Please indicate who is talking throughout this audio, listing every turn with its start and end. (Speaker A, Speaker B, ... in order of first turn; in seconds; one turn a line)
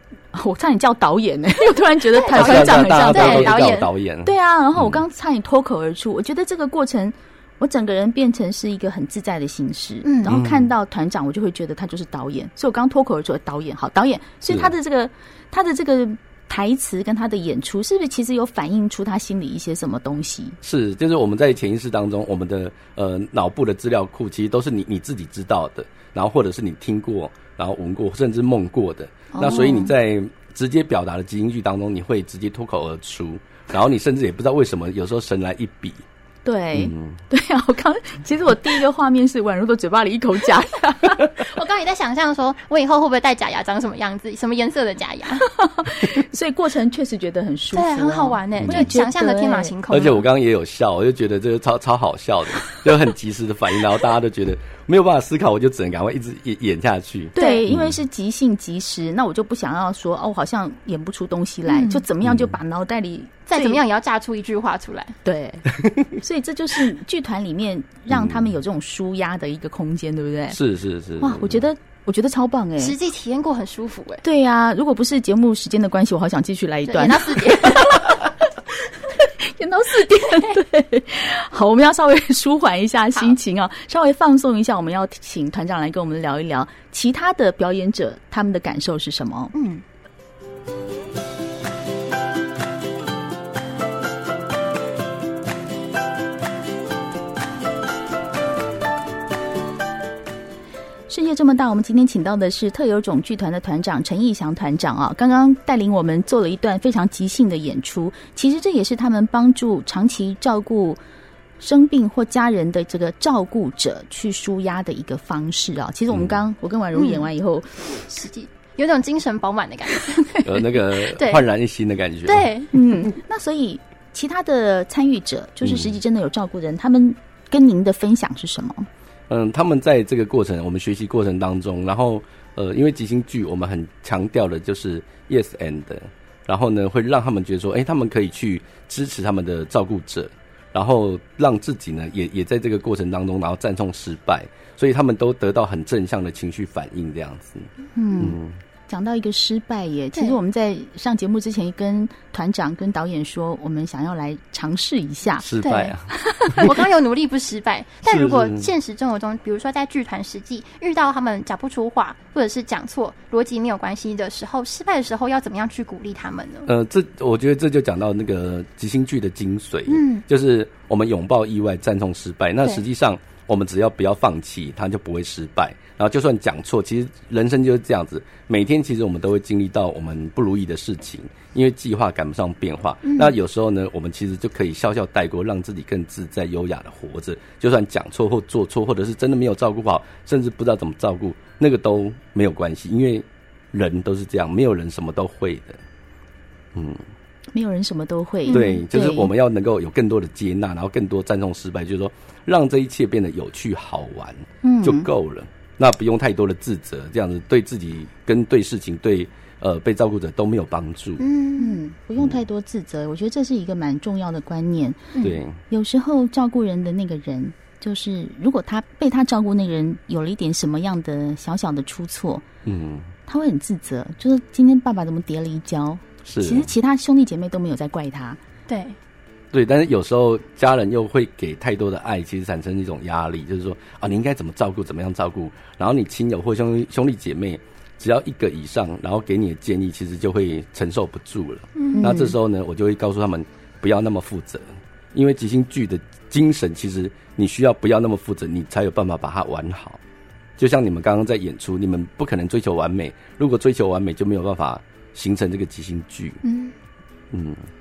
Speaker A: 0.3-20.6
Speaker B: 2.1-3.9
Speaker C: 2.3-5.0
Speaker B: 10.0-10.4
Speaker C: 10.3-10.7
Speaker C: 20.6-36.0
Speaker A: 29.3-29.9
Speaker A: 36.4-41.3
Speaker C: 36.7-37.2
Speaker B: 41.4-45.5
Speaker A: 45.5-49.7
Speaker B: 47.7-50.2
Speaker C: 48.6-48.9
Speaker C: 49.9-58.0
Speaker A: 57.3-63.8
Speaker B: 57.4-57.6
Speaker B: 61.7-62.0
Speaker C: 62.2-62.5
Speaker B: 63.5-65.2
Speaker A: 65.2-70.6
Speaker C: 68.1-68.5
Speaker C: 70.5-71.6
Speaker A: 71.2-72.9
Speaker B: 72.8-74.2
Speaker A: 74.2-78.3
Speaker B: 76.9-78.1
Speaker A: 79.2-89.5
Speaker B: 89.5-89.8
Speaker A: 101.1-111.0
Speaker A: 111.6-118.0
Speaker C: 116.1-116.4
Speaker B: 116.9-117.2
Speaker B: 118.1-121.4
Speaker C: 120.4-122.5
Speaker B: 122.2-122.7
Speaker A: 122.7-128.9
Speaker C: 125.6-126.0
Speaker C: 129.3-148.6
Speaker A: 147.9-155.4
Speaker C: 155.4-156.7
Speaker B: 155.6-155.9
Speaker A: 156.1-156.7
Speaker B: 156.5-166.7
Speaker C: 158.1-158.7
Speaker C: 166.7-195.8
Speaker B: 169.9-170.2
Speaker B: 183.0-183.3
Speaker C: 196.7-197.0
Speaker A: 197.5-199.3
Speaker B: 198.4-198.8
Speaker C: 198.5-211.2
Speaker A: 204.6-205.1
Speaker B: 211.2-211.8
Speaker A: 211.6-215.1
Speaker B: 215.1-215.4
Speaker C: 215.2-215.6
Speaker A: 215.7-222.4
Speaker C: 222.6-223.1
Speaker A: 223.2-228.4
Speaker C: 226.2-226.7
Speaker B: 228.7-228.9
Speaker C: 229.5-250.0
Speaker B: 241.8-242.1
Speaker A: 241.9-242.3
Speaker C: 250.6-256.4
Speaker B: 256.4-256.7
Speaker C: 257.3-257.6